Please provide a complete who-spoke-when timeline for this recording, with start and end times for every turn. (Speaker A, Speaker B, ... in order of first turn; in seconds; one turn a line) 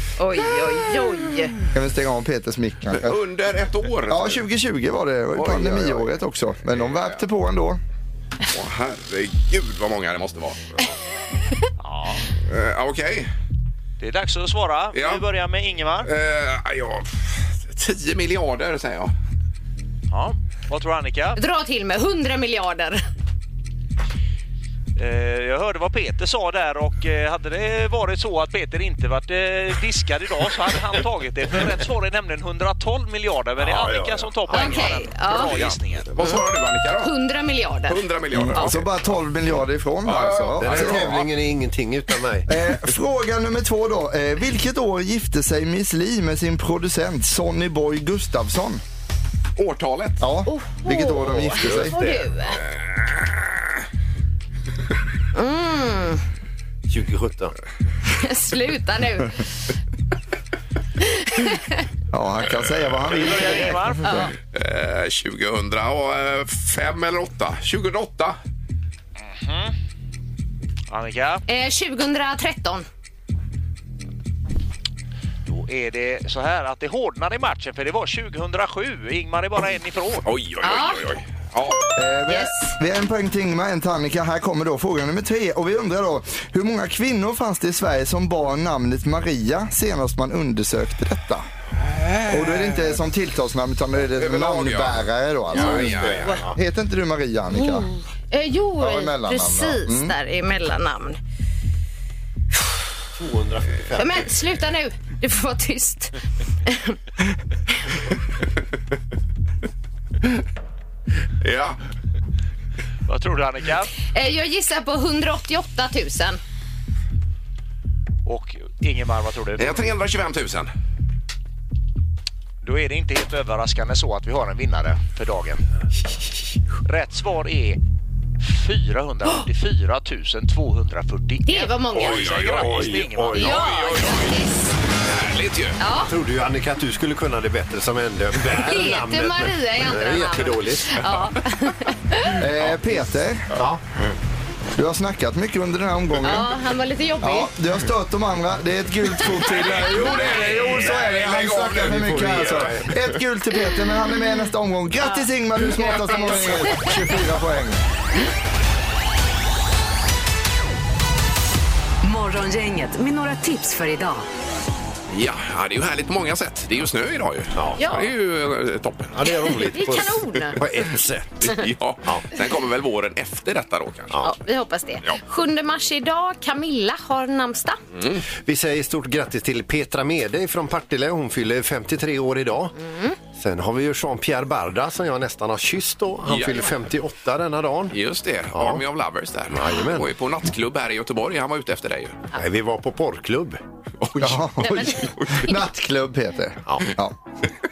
Speaker A: 0.2-1.5
Speaker B: 1.7-3.2
Speaker C: 2.9-4.4
Speaker B: 4.1-7.8
Speaker C: 5.3-6.1
Speaker C: 6.7-7.2
Speaker C: 8.5-10.9
Speaker D: 11.8-12.2
Speaker C: 12.3-13.3
Speaker D: 14.0-16.1
Speaker C: 14.9-15.2
Speaker C: 16.0-19.1
Speaker D: 20.1-21.4
Speaker A: 21.4-23.0
Speaker D: 24.9-36.1
Speaker E: 33.6-34.6
Speaker A: 34.5-35.6
Speaker C: 35.3-37.1
Speaker A: 37.0-38.0
Speaker C: 37.9-38.9
Speaker B: 38.3-41.2
Speaker C: 40.0-41.3
Speaker E: 40.6-42.5
Speaker B: 42.5-48.8
Speaker C: 49.6-50.2
Speaker B: 50.2-52.0
Speaker A: 50.5-52.6
Speaker E: 51.3-52.2
Speaker C: 52.9-53.2
Speaker A: 55.3-56.2
Speaker E: 56.9-57.5
Speaker A: 58.2-59.5
Speaker A: 61.1-61.8
Speaker B: 62.1-64.2
Speaker D: 63.2-64.2
Speaker A: 64.0-64.3
Speaker C: 64.5-68.3
Speaker D: 69.2-69.7
Speaker D: 70.9-71.4
Speaker A: 71.5-72.8
Speaker D: 75.5-80.3
Speaker C: 80.2-81.8
Speaker A: 80.6-81.0
Speaker B: 82.0-91.5
Speaker A: 82.3-82.7
Speaker C: 91.8-93.0
Speaker B: 92.3-97.9
Speaker C: 94.1-96.4
Speaker E: 95.5-96.6
Speaker A: 97.5-101.2
Speaker B: 98.8-100.1
Speaker E: 103.1-104.2
Speaker A: 103.9-106.1
Speaker A: 106.7-107.0
Speaker C: 111.4-111.8
Speaker D: 113.1-113.9
Speaker A: 114.1-116.4
Speaker D: 118.2-119.9
Speaker C: 119.6-120.7
Speaker D: 122.6-125.6
Speaker D: 126.8-127.8
Speaker D: 128.4-133.7
Speaker A: 131.4-132.3
Speaker C: 131.9-132.8
Speaker E: 132.0-133.6
Speaker A: 133.3-134.8
Speaker C: 133.3-134.4
Speaker C: 134.9-135.8
Speaker A: 135.8-136.1
Speaker E: 136.0-141.0
Speaker A: 138.6-142.4
Speaker B: 142.3-143.5
Speaker E: 143.5-143.8
Speaker B: 144.8-146.5
Speaker A: 146.2-147.5
Speaker B: 147.2-157.8
Speaker C: 149.7-153.1
Speaker E: 151.8-152.9
Speaker A: 155.8-156.9
Speaker C: 156.1-156.7
Speaker F: 162.0-164.2
Speaker C: 165.1-169.1
Speaker E: 167.6-167.8
Speaker A: 167.8-168.1
Speaker E: 169.1-172.2
Speaker A: 169.2-170.6
Speaker C: 171.4-174.2
Speaker A: 174.2-177.8
Speaker C: 177.9-178.2
Speaker E: 178.4-182.7
Speaker A: 182.8-183.2
Speaker E: 183.3-187.9
Speaker C: 186.2-186.7
Speaker C: 187.9-192.2
Speaker E: 188.5-188.8
Speaker E: 189.5-190.1
Speaker E: 192.3-193.6
Speaker C: 194.0-195.5
Speaker B: 194.2-197.1
Speaker A: 194.6-195.5
Speaker E: 196.7-196.9